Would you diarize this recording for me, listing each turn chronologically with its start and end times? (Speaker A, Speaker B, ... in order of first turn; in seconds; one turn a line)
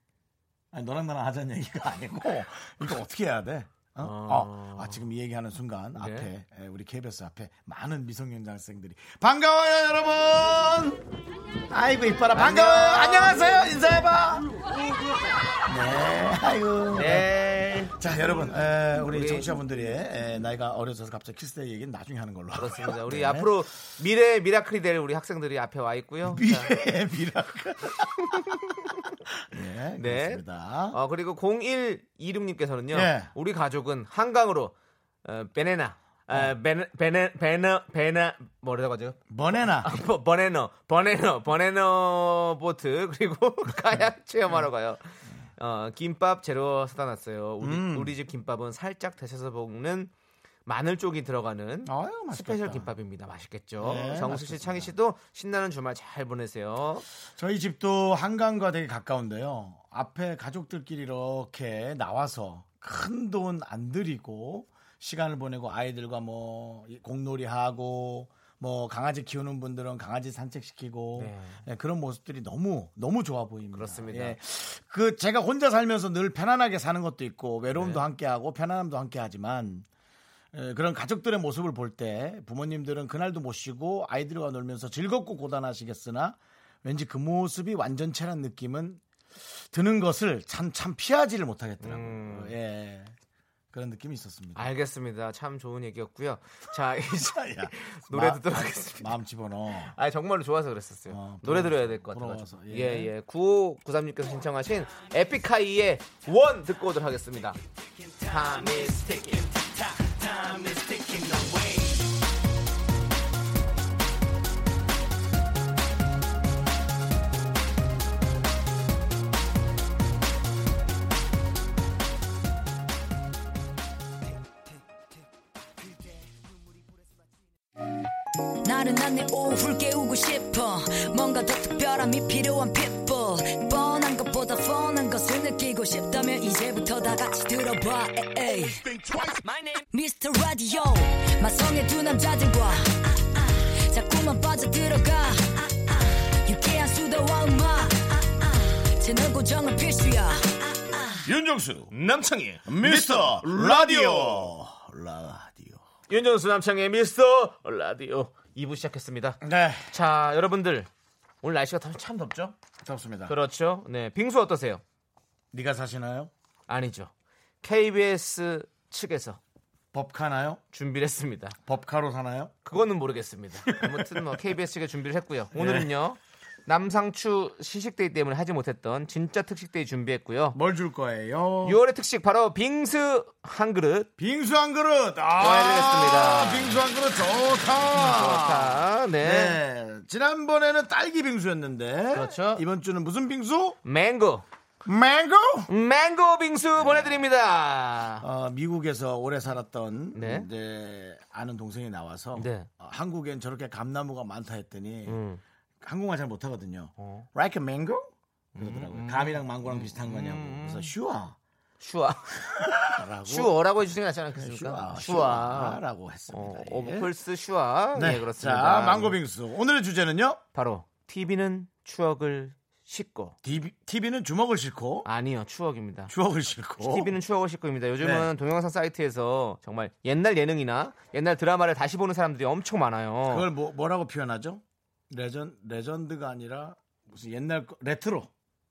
Speaker A: 0.7-11.0
Speaker B: 4.0-5.0
Speaker B: 6.0-6.3
Speaker A: 11.7-14.6
Speaker B: 12.3-13.6
Speaker A: 15.6-17.3
Speaker B: 16.9-18.0
Speaker A: 17.9-23.5
Speaker B: 19.1-19.5
Speaker B: 22.5-26.7
Speaker A: 26.2-28.6
Speaker A: 29.4-31.0
Speaker B: 30.0-34.7
Speaker A: 32.9-33.3
Speaker B: 35.2-50.1
Speaker A: 39.3-39.9
Speaker A: 47.6-48.1
Speaker B: 50.6-57.0
Speaker A: 51.8-52.9
Speaker A: 53.8-54.9
Speaker A: 57.3-79.9
Speaker B: 71.2-71.6
Speaker B: 73.7-74.4
Speaker B: 77.7-78.0
Speaker A: 80.5-93.1
Speaker B: 91.8-92.5
Speaker A: 93.7-94.7
Speaker B: 94.5-99.2
Speaker A: 97.2-99.9
Speaker B: 99.9-107.6
Speaker A: 101.1-103.1
Speaker B: 108.2-111.7
Speaker C: 128.6-139.3
Speaker C: 139.9-151.3
Speaker A: 151.2-151.9
Speaker B: 151.9-154.5
Speaker A: 152.7-155.8
Speaker B: 156.1-160.9
Speaker A: 159.4-159.9
Speaker B: 161.4-162.5
Speaker A: 162.8-163.3
Speaker B: 163.3-164.8
Speaker A: 165.5-166.3
Speaker B: 166.7-167.1
Speaker B: 167.6-169.4
Speaker A: 169.9-170.6
Speaker B: 170.7-171.6
Speaker A: 171.7-172.5
Speaker B: 172.6-180.6
Speaker A: 173.7-174.4
Speaker A: 175.5-175.9
Speaker A: 180.5-181.8
Speaker B: 181.6-184.1
Speaker A: 184.2-193.8
Speaker B: 185.4-186.8
Speaker B: 187.9-189.6
Speaker B: 192.1-192.6
Speaker B: 193.8-194.4
Speaker A: 194.8-195.7
Speaker B: 195.7-198.2
Speaker A: 196.8-197.2
Speaker A: 198.2-205.2
Speaker B: 200.1-200.5
Speaker B: 202.3-202.7
Speaker B: 205.1-205.4
Speaker A: 205.8-211.3
Speaker B: 207.0-207.3
Speaker B: 208.6-210.9
Speaker B: 211.8-219.2
Speaker A: 212.6-213.5
Speaker A: 214.3-217.1
Speaker A: 217.9-220.4
Speaker B: 220.5-223.3
Speaker A: 223.4-225.1
Speaker B: 225.0-226.1
Speaker A: 226.1-227.1
Speaker B: 226.8-233.5
Speaker A: 228.0-228.3
Speaker A: 233.3-238.3